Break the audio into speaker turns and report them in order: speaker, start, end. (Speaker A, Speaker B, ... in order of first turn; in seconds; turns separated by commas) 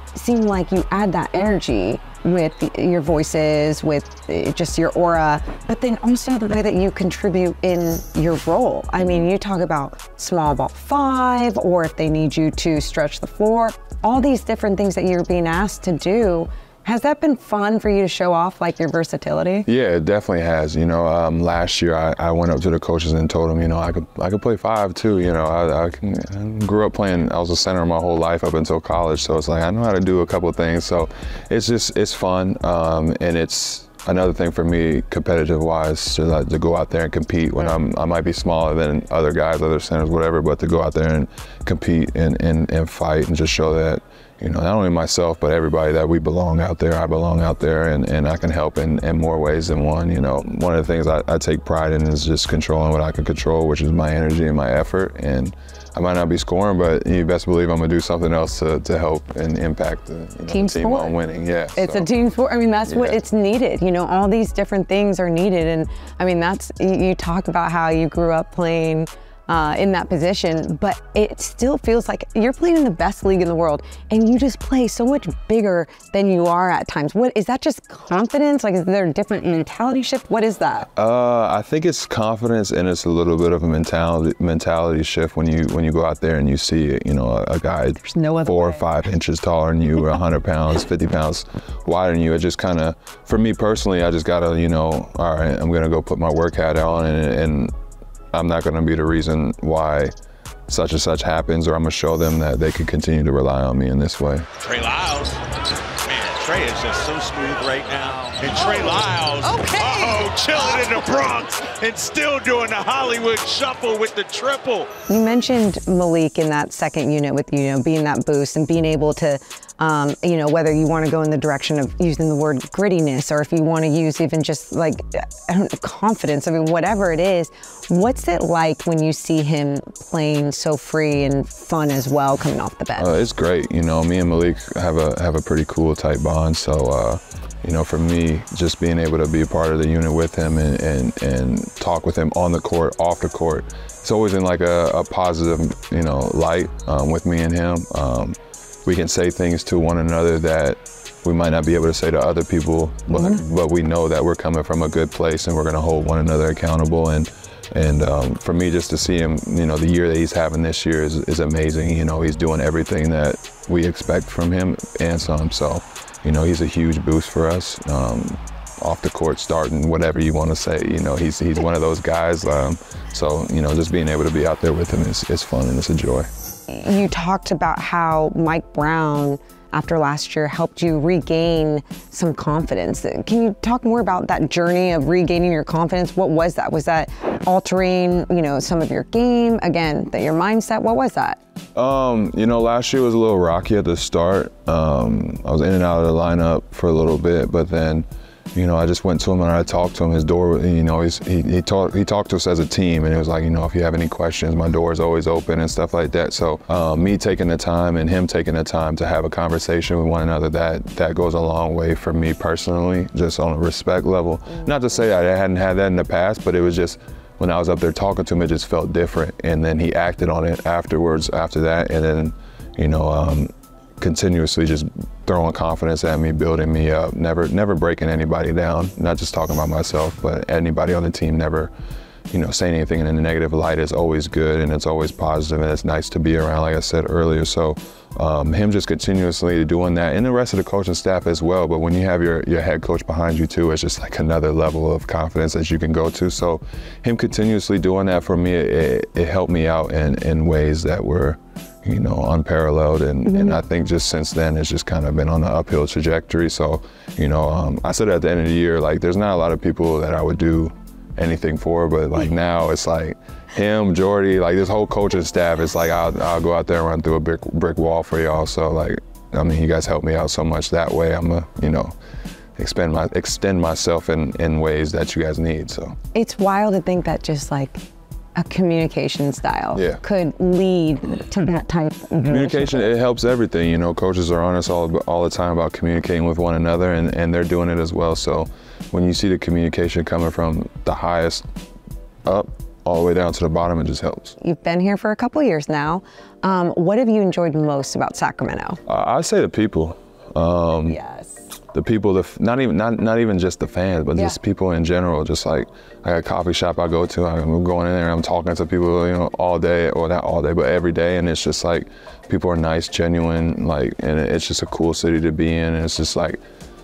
Speaker A: 0.1-19.7, Speaker B: 19.6-62.1, Speaker A: 60.5-61.1, Speaker A: 61.7-80.9, Speaker B: 62.9-63.2, Speaker B: 80.9-97.7, Speaker A: 88.0-88.8, Speaker B: 98.3-100.1, Speaker B: 100.7-104.5, Speaker C: 104.6-105.4, Speaker C: 106.0-114.9, Speaker A: 108.6-108.9, Speaker A: 109.4-110.3, Speaker A: 115.1-133.1, Speaker B: 133.0-176.3, Speaker A: 153.1-153.4, Speaker A: 176.7-191.4, Speaker B: 191.7-231.7, Speaker B: 232.3-271.9, Speaker A: 253.3-253.6, Speaker B: 272.6-276.0, Speaker A: 276.1-277.8, Speaker A: 278.4-282.9, Speaker B: 279.7-280.0, Speaker B: 282.2-291.4, Speaker B: 292.2-294.4, Speaker A: 294.4-298.8, Speaker B: 298.9-301.0, Speaker A: 300.9-301.4, Speaker B: 301.7-316.4